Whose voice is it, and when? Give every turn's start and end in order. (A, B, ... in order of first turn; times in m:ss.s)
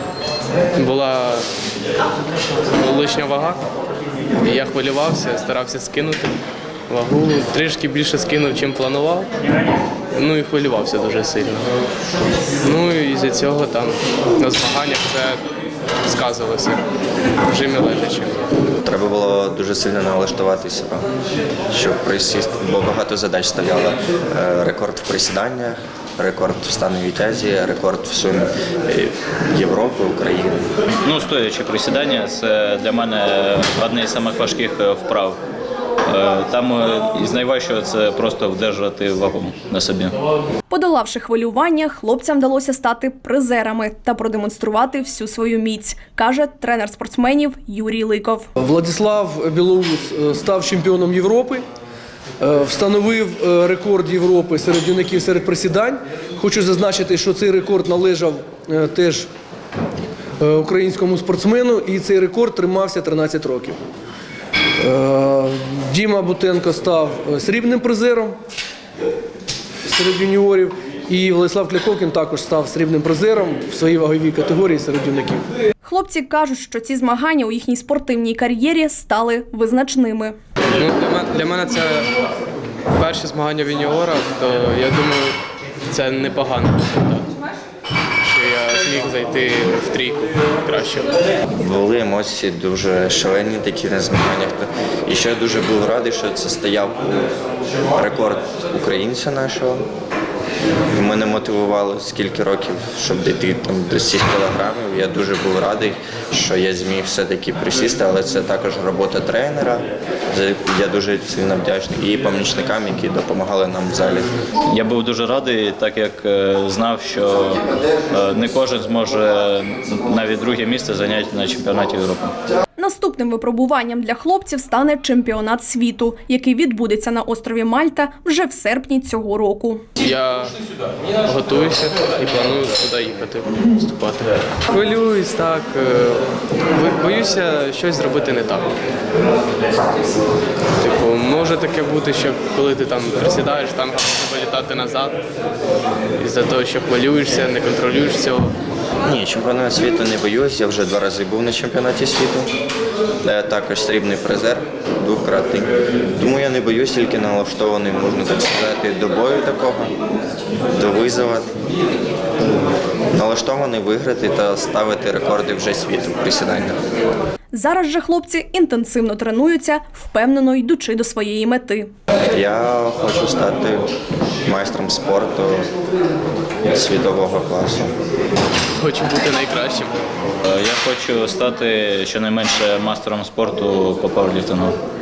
0:00.8-0:01.5 A
0:02.7-0:03.6 A
0:04.4-0:06.3 A
0:06.9-0:09.3 A
0:10.1-0:11.6 A
0:12.6-0:15.4 A
0:16.0-0:16.8 A
0:17.5-0:18.4 A
0:18.8-0:21.0 B
0:21.7-0:30.7 B
0:31.0-0:35.4 C
0:36.0-0:40.2 C
0:40.7-0:48.5 D
0:48.6-0:51.7 E
0:52.4-0:59.3 E
1:00.4-1:03.8 E
1:04.8-1:08.4 E
1:09.8-1:15.5 E
1:15.8-1:20.4 D
1:20.7-1:22.1 A
1:22.9-1:27.3 A
1:28.2-1:31.1 A
1:31.6-1:37.3 B
1:37.9-1:39.9 B
1:40.9-1:54.3 B
1:54.7-2:02.3 C
2:02.8-2:09.8 D
2:10.0-2:10.5 A
2:11.2-2:18.7 A
2:20.8-2:25.2 A
2:26.2-2:28.5 A
2:29.0-2:32.5 B
2:33.2-2:39.9 B
2:40.7-2:41.5 B
2:43.1-2:46.8 B
2:47.5-2:51.9 D
2:52.3-2:53.9 B
2:54.4-2:55.7 B
2:56.7-2:57.9 B
2:58.7-3:00.0 A
3:00.4-3:04.8 C